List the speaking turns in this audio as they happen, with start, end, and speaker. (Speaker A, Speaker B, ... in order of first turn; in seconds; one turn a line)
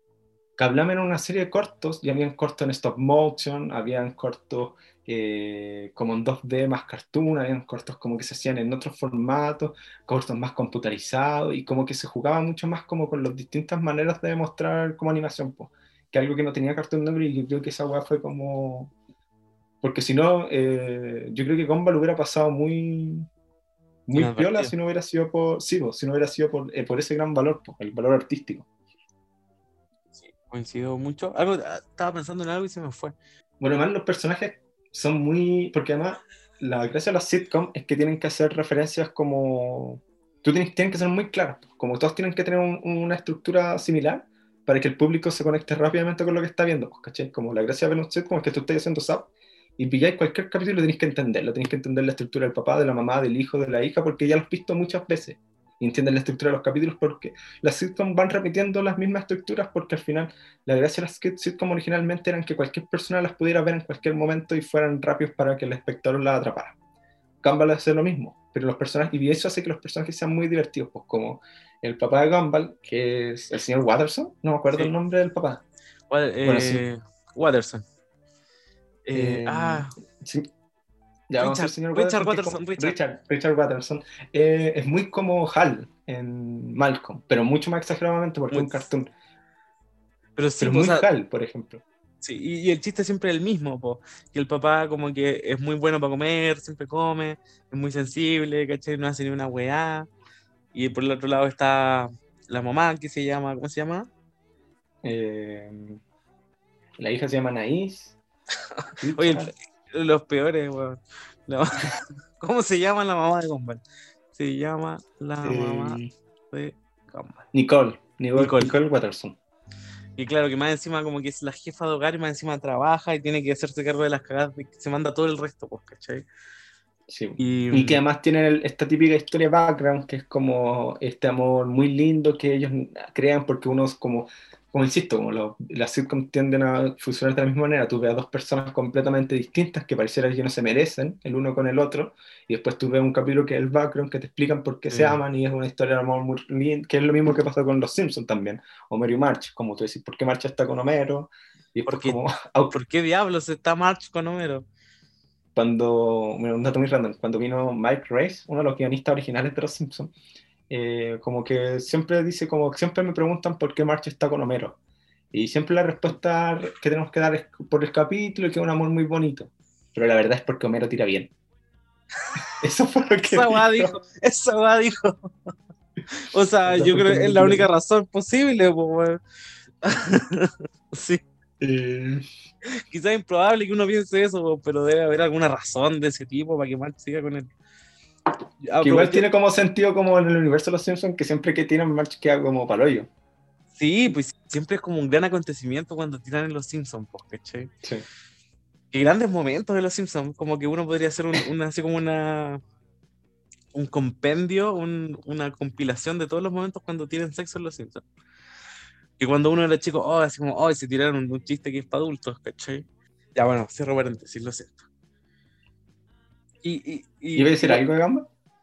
Speaker A: 0.6-18.9
Speaker A: 19.8-23.3
Speaker A: 24.1-28.7
Speaker B: 24.1-24.7
Speaker B: 30.1-33.1
Speaker A: 33.6-66.8
Speaker A: 67.4-75.6
Speaker B: 76.1-77.8
Speaker A: 76.4-76.8
Speaker B: 79.0-79.9
Speaker A: 79.1-80.5
Speaker A: 81.3-89.1
Speaker B: 81.4-83.0
Speaker B: 88.5-88.9
Speaker B: 90.3-91.0
Speaker A: 90.6-91.8
Speaker B: 92.2-100.1
Speaker B: 100.7-104.1
Speaker A: 105.0-106.0
Speaker A: 107.0-108.2
Speaker B: 108.8-113.8
Speaker A: 109.0-109.5
Speaker B: 114.3-117.4
Speaker A: 115.4-116.1
Speaker A: 117.5-119.3
Speaker B: 118.3-118.7
Speaker B: 120.2-126.3
Speaker A: 127.1-152.8
Speaker B: 127.4-128.0
Speaker B: 144.9-145.2
Speaker B: 151.8-152.2
Speaker B: 152.7-154.7
Speaker A: 155.5-160.1
Speaker A: 160.7-164.8
Speaker A: 165.3-171.3
Speaker A: 172.6-173.9
Speaker B: 173.2-175.5
Speaker B: 176.1-179.2
Speaker A: 176.7-177.7
Speaker B: 179.8-181.2
Speaker A: 181.6-182.2
Speaker B: 182.8-187.5
Speaker B: 188.6-189.2
Speaker A: 188.8-193.1
Speaker B: 193.8-197.7
Speaker B: 198.9-202.6
Speaker B: 203.7-208.0
Speaker B: 209.2-214.9
Speaker B: 216.6-217.8
Speaker A: 217.3-218.3